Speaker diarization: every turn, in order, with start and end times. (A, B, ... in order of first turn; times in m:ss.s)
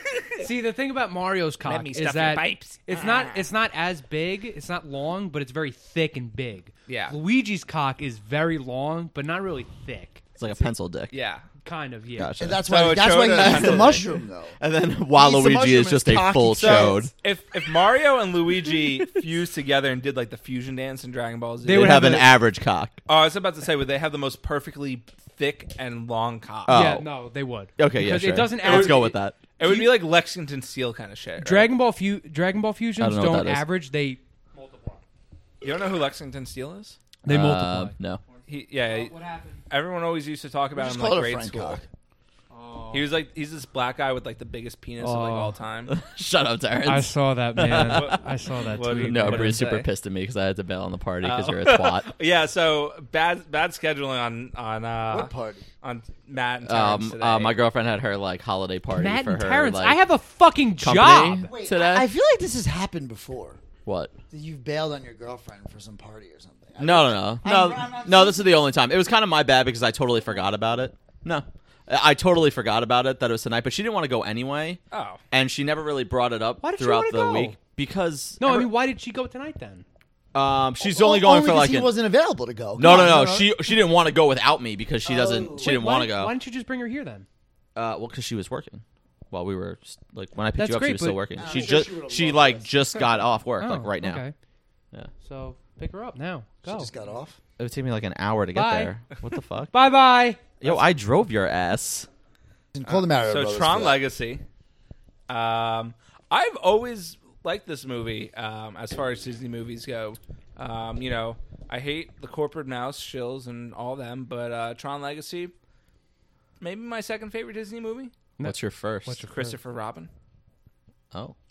0:00.4-0:10.2 A
0:01.6-0:03.4 B
0:06.9-0:07.2 B
0:10.4-0:11.1 C
0:11.1-0:11.4 B
0:11.6-0:12.3 A
0:12.2-0:14.0 C
0:12.4-0:14.6 D
0:12.6-0:14.0 B
0:14.6-0:17.1 C
0:15.1-0:17.1 D
0:16.5-0:22.2 B
0:21.6-0:22.3 A
0:21.7-0:23.0 C
0:23.1-0:26.7 B
0:26.7-0:27.1 C
0:26.7-0:29.9 A
0:27.8-0:29.4 C
0:28.6-0:31.7 B
0:31.4-0:35.0 A
0:33.0-0:33.6 C
0:35.6-0:37.0 B
0:37.2-0:38.0 A
0:37.3-0:38.2 C
0:38.5-0:39.1 B
0:38.8-0:39.6 A
0:39.7-0:41.8 B
0:40.7-0:41.8 D
0:42.5-0:43.1 A
0:42.9-0:45.9 B
0:45.0-0:45.6 A
0:45.9-0:48.2 C
0:46.8-0:49.6 A
0:47.7-0:49.9 B
0:48.9-0:52.1 C
0:51.2-0:57.6 B
0:55.1-0:55.6 D
0:56.6-1:00.0 C
0:58.9-1:01.5 A
1:00.8-1:02.1 C
1:01.3-1:03.6 D
1:03.8-1:04.1 C
1:04.3-1:08.6 D
1:06.8-1:14.8 C
1:14.9-1:15.2 B
1:15.3-1:18.7 C
1:16.6-1:17.6 A
1:18.4-1:19.8 A
1:20.3-1:21.9 C
1:20.8-1:23.6 D
1:22.8-1:26.3 C
1:25.0-1:25.8 D
1:25.6-1:27.2 A
1:27.7-1:34.2 C
1:30.6-1:31.4 A
1:31.4-1:32.8 D
1:33.6-1:34.3 A
1:35.2-1:36.9 A
1:36.6-1:37.4 D
1:37.6-1:39.7 C
1:38.5-1:38.9 A
1:39.7-1:40.4 A
1:40.6-1:42.1 C
1:40.6-1:40.9 B
1:42.7-1:44.0 D
1:42.8-1:44.4 B
1:45.3-1:55.5 B
1:56.6-1:58.1 B
1:58.4-1:59.6 A
1:58.4-1:59.2 C
1:59.2-2:00.1 B